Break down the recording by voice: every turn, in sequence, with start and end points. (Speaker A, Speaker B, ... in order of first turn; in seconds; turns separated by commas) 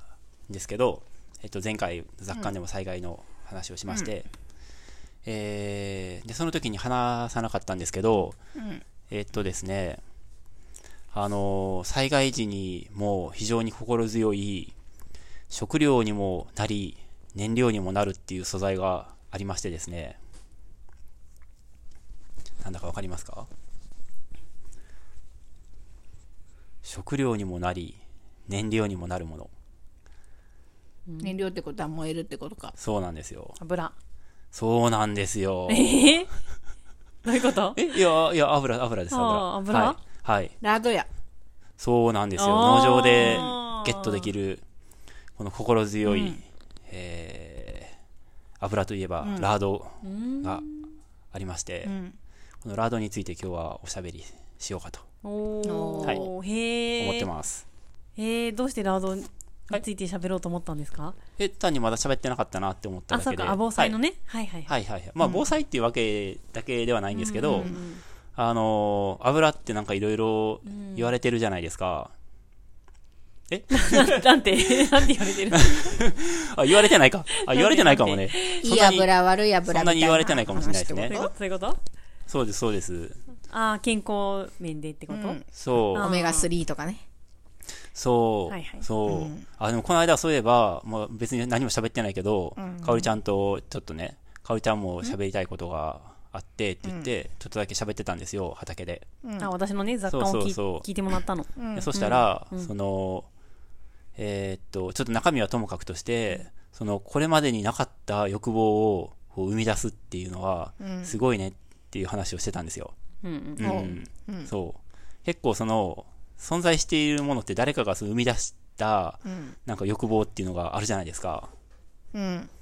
Speaker A: 0.5-4.3, Speaker A: 5.2-8.4, Speaker B: 8.6-8.8, Speaker A: 9.1-10.0, Speaker A: 11.1-14.7, Speaker A: 15.5-20.2, Speaker A: 22.6-23.5, Speaker A: 26.8-29.5, Speaker C: 31.1-31.3, Speaker B: 31.2-32.7, Speaker A: 32.8-33.6, Speaker C: 33.6-33.9, Speaker A: 34.5-36.2, Speaker C: 35.7-36.3, Speaker C: 37.2-38.0, Speaker A: 37.8-40.5, Speaker C: 39.1-40.0, Speaker B: 40.6-41.1, Speaker A: 41.8-44.6, Speaker C: 42.4-44.3, Speaker B: 43.2-43.5, Speaker A: 45.4-47.9, Speaker B: 46.0-46.4, Speaker A: 48.6-50.6, Speaker B: 49.2-49.5, Speaker C: 50.0-50.9, Speaker A: 51.3-51.9, Speaker B: 51.8-52.1, Speaker A: 52.6-55.0, Speaker C: 55.2-57.3, Speaker B: 55.6-56.2, Speaker A: 57.0-57.6, Speaker C: 58.1-61.1, Speaker A: 61.4-64.0, Speaker C: 63.1-64.7, Speaker A: 64.7-67.7, Speaker C: 67.1-68.0, Speaker B: 67.5-67.8, Speaker A: 68.3-72.1, Speaker C: 70.7-71.1, Speaker A: 73.5-79.1, Speaker C: 73.7-76.0, Speaker C: 77.3-78.7, Speaker B: 78.6-81.3, Speaker A: 79.7-81.2, Speaker C: 81.1-81.8, Speaker A: 82.3-83.2, Speaker C: 83.5-85.4, Speaker B: 85.1-87.0, Speaker A: 85.5-86.1, Speaker C: 85.9-86.5, Speaker A: 87.9-99.0, Speaker C: 88.5-88.9, Speaker B: 89.0-89.4, Speaker B: 92.6-93.1, Speaker B: 99.2-99.5, Speaker C: 99.4-102.7, Speaker A: 100.1-100.9, Speaker B: 101.5-101.9, Speaker A: 101.7-103.3, Speaker A: 104.2-112.9, Speaker B: 110.8-111.2, Speaker C: 113.2-113.6, Speaker A: 113.6-121.5, Speaker B: 113.6-114.5, Speaker B: 119.2-119.5, Speaker B: 122.1-122.5